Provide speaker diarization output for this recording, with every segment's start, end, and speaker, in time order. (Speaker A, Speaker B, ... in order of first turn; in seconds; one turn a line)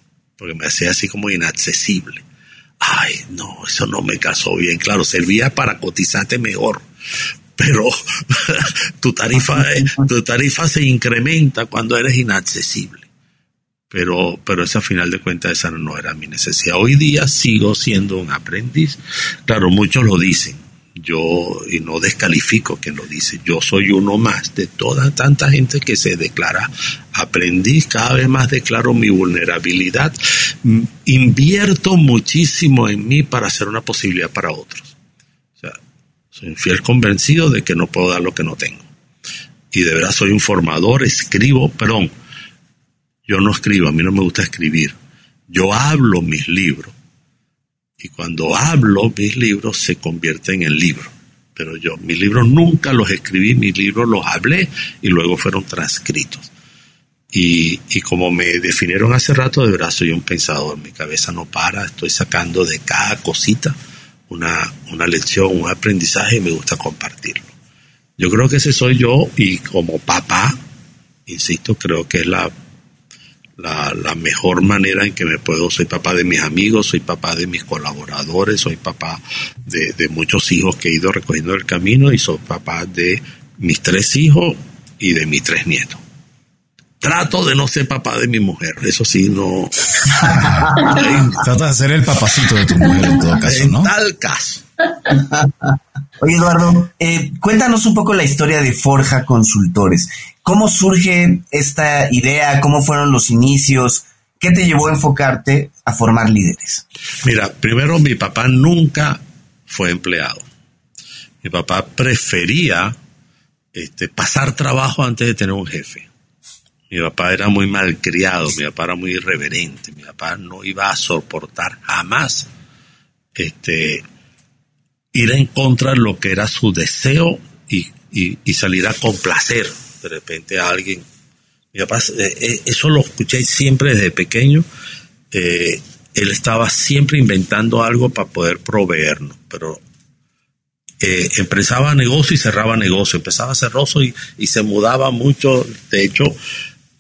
Speaker A: 0.4-2.2
Speaker A: 2.8-6.9
Speaker A: 7.6-13.1
Speaker A: 13.9-35.0
Speaker A: 36.3-38.9
Speaker A: 39.7-42.1
Speaker A: 43.3-45.0
Speaker A: 45.5-47.0
Speaker A: 48.0-56.5
Speaker A: 57.3-63.8
Speaker A: 64.3-67.5
Speaker A: 68.2-70.6
Speaker A: 71.3-72.5
Speaker A: 73.6-86.0
Speaker A: 87.0-91.4
Speaker B: 90.2-93.9
Speaker C: 90.4-91.0
Speaker A: 93.4-94.7
Speaker C: 95.2-95.5
Speaker C: 96.2-106.8
Speaker A: 107.2-110.5
Speaker A: 111.4-113.0
Speaker A: 113.7-116.1
Speaker A: 116.9-122.5
Speaker A: 123.3-124.0
Speaker A: 125.1-131.1
Speaker A: 131.7-134.7
Speaker A: 135.3-139.8
Speaker A: 141.0-146.4